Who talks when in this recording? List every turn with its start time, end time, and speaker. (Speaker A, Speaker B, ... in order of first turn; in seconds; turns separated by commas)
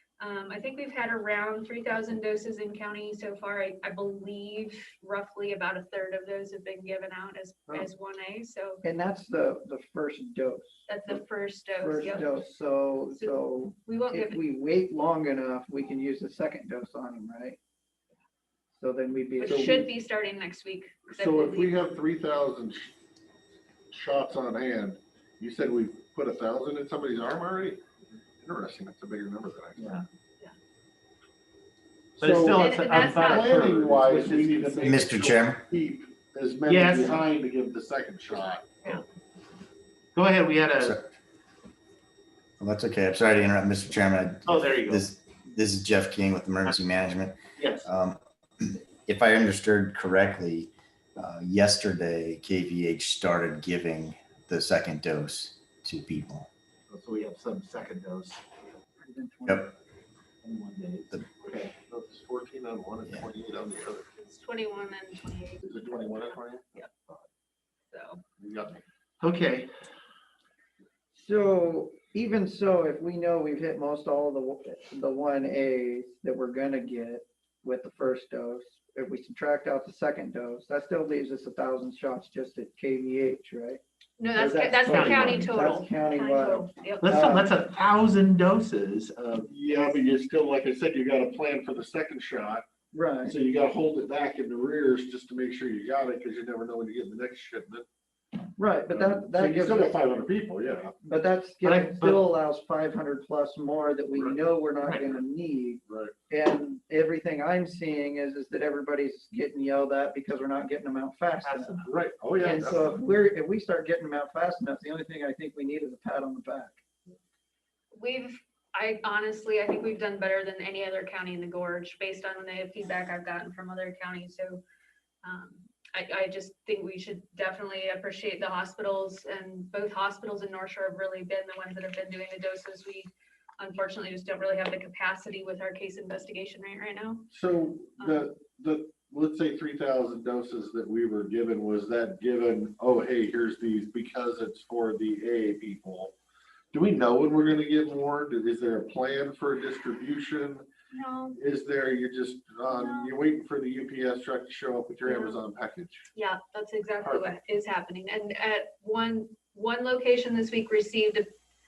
Speaker A: 0.2-8.8, Speaker B: 8.8-11.2, Speaker A: 10.9-12.4, Speaker B: 11.8-17.6, Speaker A: 13.1-14.4, Speaker B: 18.7-19.9, Speaker A: 19.4-21.8, Speaker C: 21.1-22.9, Speaker C: 23.9-27.8, Speaker C: 28.4-30.0, Speaker D: 29.8-30.0, Speaker D: 32.2-35.0, Speaker C: 32.2-38.8, Speaker A: 32.5-33.6, Speaker E: 34.8-35.6, Speaker D: 36.6-37.2, Speaker D: 40.1-41.0, Speaker E: 40.8-41.0, Speaker E: 42.6-56.5, Speaker D: 44.5-45.1, Speaker D: 47.6-47.9, Speaker D: 56.9-58.4, Speaker B: 59.0-59.7, Speaker D: 60.4-61.7, Speaker C: 61.9-64.0, Speaker A: 64.2-66.9, Speaker C: 65.6-66.7, Speaker A: 67.9-68.2, Speaker C: 68.4-68.8, Speaker D: 69.2-69.7, Speaker B: 71.1-83.8, Speaker A: 84.2-87.2, Speaker B: 84.3-87.5, Speaker D: 84.9-85.6, Speaker D: 87.0-89.5, Speaker C: 89.5-92.6, Speaker B: 92.9-93.4, Speaker C: 93.2-97.8, Speaker B: 98.6-100.0, Speaker C: 98.9-101.0, Speaker B: 101.0-111.8, Speaker D: 101.6-102.2, Speaker C: 104.1-104.4, Speaker D: 104.8-105.2, Speaker C: 105.8-106.1, Speaker D: 111.4-111.9, Speaker C: 111.8-113.0, Speaker B: 112.4-116.8, Speaker A: 117.9-124.6, Speaker A: 125.2-137.3, Speaker C: 137.3-146.1, Speaker A: 138.0-138.2, Speaker C: 146.7-150.6, Speaker A: 150.9-151.4, Speaker C: 151.4-156.0, Speaker A: 152.7-153.1, Speaker A: 155.1-155.4, Speaker A: 156.1-161.3, Speaker C: 157.0-157.3